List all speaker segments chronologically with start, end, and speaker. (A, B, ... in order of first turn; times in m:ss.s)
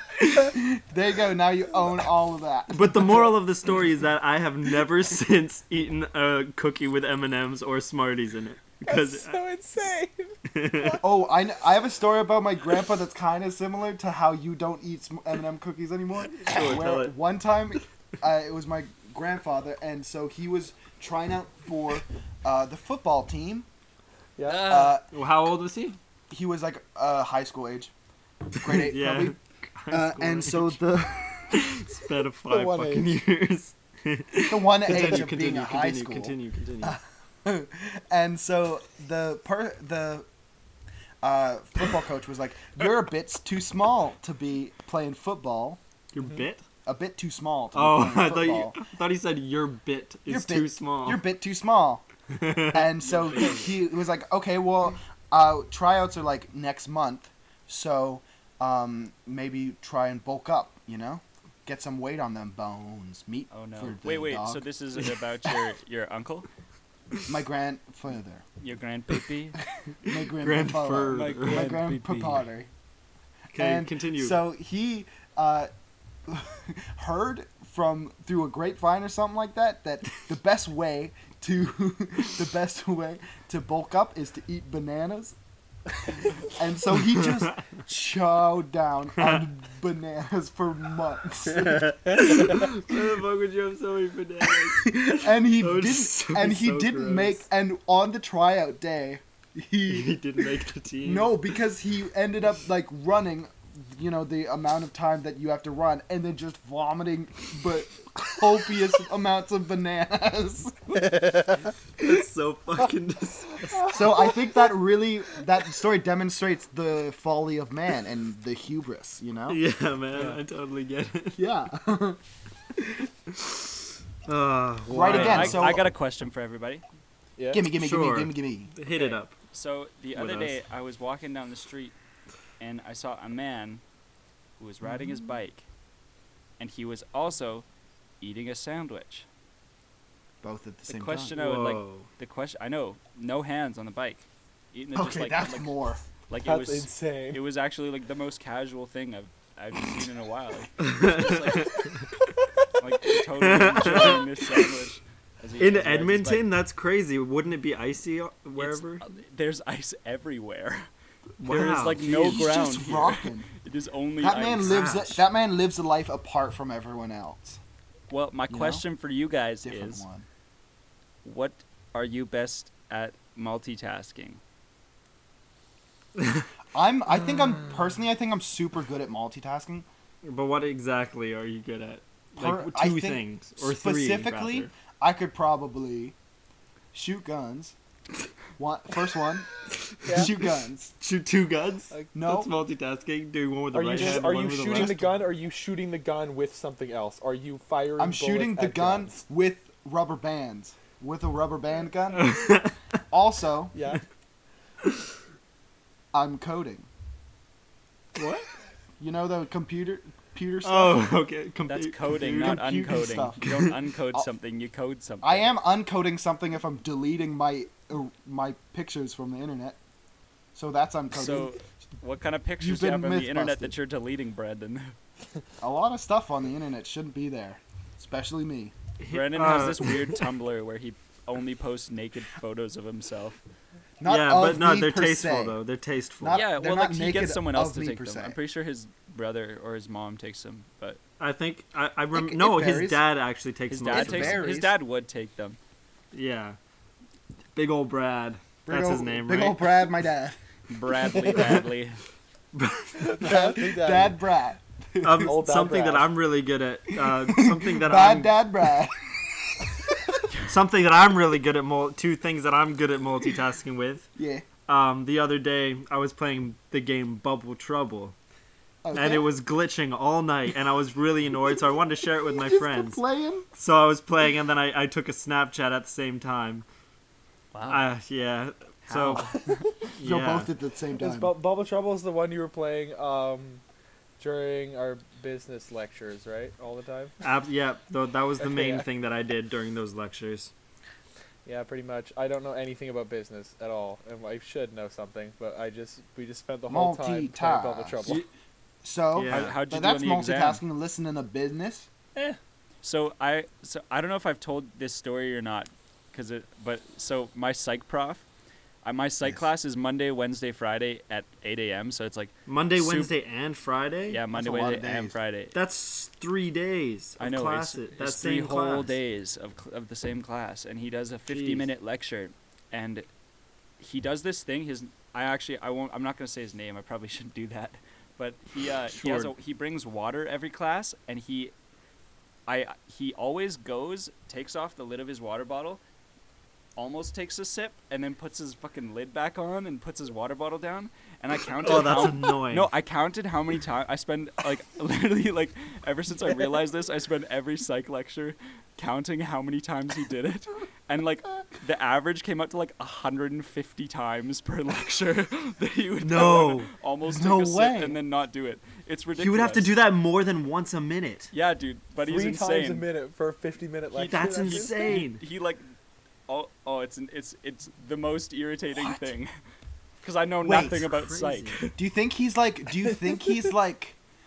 0:00.3-0:03.3 A
0:02.7-0:09.4 B
0:08.8-0:11.0 C
0:10.5-0:11.0 B
0:11.0-0:23.6 A
0:16.3-0:17.1 B
0:24.4-0:24.7 C
0:24.5-0:25.0 D
0:24.6-0:25.0 A
0:25.1-0:26.0 B
0:26.3-0:27.9 A
0:28.6-0:29.3 A
0:28.6-0:30.8 B
0:29.9-0:31.6 A
0:31.5-0:37.0 B
0:32.5-0:33.1 C
0:34.5-0:40.2 A
0:41.2-0:45.8 A
0:46.1-0:46.6 B
0:46.8-0:48.8 A
0:47.7-0:51.2 B
0:50.3-0:52.0 A
0:52.3-0:52.9 B
0:52.7-1:04.6 A
0:53.0-0:53.7 D
1:03.5-1:06.5 D
1:07.3-1:08.4 A
1:08.6-1:09.6 D
1:10.0-1:12.7 A
1:10.1-1:11.7 B
1:11.1-1:12.4 D
1:13.5-1:14.4 B
1:13.5-1:15.7 A
1:16.3-1:25.4 A
1:26.5-1:32.6 A
1:27.2-1:27.6 B
1:29.2-1:29.4 B
1:31.5-1:37.4 B
1:34.5-1:40.4 A
1:39.9-1:41.3 B
1:41.0-1:50.8 A
1:51.0-1:51.7 C
1:52.0-1:54.0 B
1:53.8-1:59.6 A
1:59.5-2:01.4 B
2:00.1-2:00.4 C
2:01.4-2:02.2 A
2:04.2-2:05.8 B
2:04.9-2:05.9 A
2:05.0-2:06.8 D
2:07.4-2:07.6 C
2:07.5-2:08.7 A
2:07.7-2:09.3 B
2:08.9-2:09.2 C
2:09.5-2:12.0 D
2:10.1-2:10.6 B
2:12.6-2:13.8 D
2:14.6-2:15.6 D
2:16.6-2:17.6 D
2:18.2-2:19.2 D
2:20.4-2:21.3 A
2:20.9-2:25.7 D
2:21.4-2:22.0 B
2:24.9-2:26.0 A
2:26.3-2:31.9 D
2:26.4-2:27.4 C
2:30.8-2:32.0 B
2:32.8-2:36.5 D
2:33.4-2:34.6 B
2:35.6-2:39.0 B
2:38.6-2:40.9 D
2:41.4-2:42.5 B
2:41.4-2:45.0 D
2:42.0-2:43.5 A
2:44.2-2:47.6 A
2:44.6-2:45.2 B
2:48.1-2:50.0 D
2:48.5-2:48.8 A
2:49.6-2:50.2 A
2:51.2-2:54.4 D
2:56.2-2:56.5 B
2:56.7-2:59.8 A
3:00.2-3:04.7 B
3:02.4-3:06.1 A
3:06.9-3:07.8 A
3:08.6-3:09.5 A
3:10.0-3:10.3 C
3:10.0-3:10.9 A
3:11.0-3:15.1 B
3:12.1-3:12.5 A
3:13.7-3:19.2 C
3:14.0-3:15.1 A
3:18.0-3:22.3 A
3:22.1-3:22.8 B
3:23.1-3:23.7 A
3:23.7-3:24.0 C
3:26.1-3:26.9 A
3:28.2-3:28.4 B
3:29.0-3:31.1 A
3:30.6-3:33.8 B
3:31.7-3:35.5 D
3:32.3-3:33.5 A
3:35.2-3:39.8 A
3:40.5-3:41.5 A
3:41.1-3:44.9 D
3:42.6-3:43.7 A
3:45.6-3:48.7 A
3:49.0-3:50.2 B
3:49.1-3:53.4 D
3:54.0-3:55.6 A
3:54.0-3:56.4 B
3:56.2-3:58.4 A
3:56.3-4:01.0 D
4:01.2-4:04.4 B
4:02.1-4:03.0 A
4:03.7-4:05.6 D
4:03.9-4:04.7 A
4:06.1-4:06.6 B
4:07.5-4:09.7 B
4:08.7-4:10.4 A
4:10.7-4:12.0 D
4:12.5-4:13.2 B
4:13.0-4:14.2 C
4:13.2-4:15.4 A
4:15.0-4:18.3 B
4:15.2-4:16.1 C
4:17.0-4:19.0 A
4:20.5-4:24.1 B
4:24.2-4:24.4 A
4:24.6-4:28.1 B
4:28.8-4:29.3 A
4:28.9-4:33.0 B
4:32.2-4:33.5 A
4:33.5-4:36.6 B
4:37.5-4:37.8 D
4:37.7-4:39.3 B
4:38.9-4:39.6 D
4:40.0-4:40.5 B
4:40.0-4:41.3 A
4:41.0-4:43.6 C
4:44.2-4:47.1 C
4:47.2-4:50.5 B
4:48.4-4:48.8 C
4:51.4-4:58.2 C
4:56.7-4:58.2 A
4:58.8-5:01.9 A
4:59.1-4:59.6 B
4:59.3-5:00.6 D
5:02.8-5:08.2 D
5:08.8-5:13.1 D
5:12.5-5:14.2 B
5:14.1-5:15.5 D
5:14.3-5:15.2 A
5:15.5-5:19.0 B
5:17.2-5:23.0 D
5:21.3-5:21.7 B
5:23.8-5:31.5 D
5:28.9-5:29.3 B
5:32.5-5:35.8 D
5:36.8-5:59.7 D
5:41.6-5:42.7 B
5:56.0-5:56.7 B
5:57.0-5:58.0 A
5:59.2-6:01.3 B
6:01.3-6:02.8 D
6:02.0-6:05.0 C
6:04.0-6:05.2 B
6:04.4-6:05.6 D
6:06.3-6:09.3 D
6:10.0-6:11.8 D
6:10.4-6:10.9 A
6:10.5-6:11.6 B
6:11.8-6:14.0 A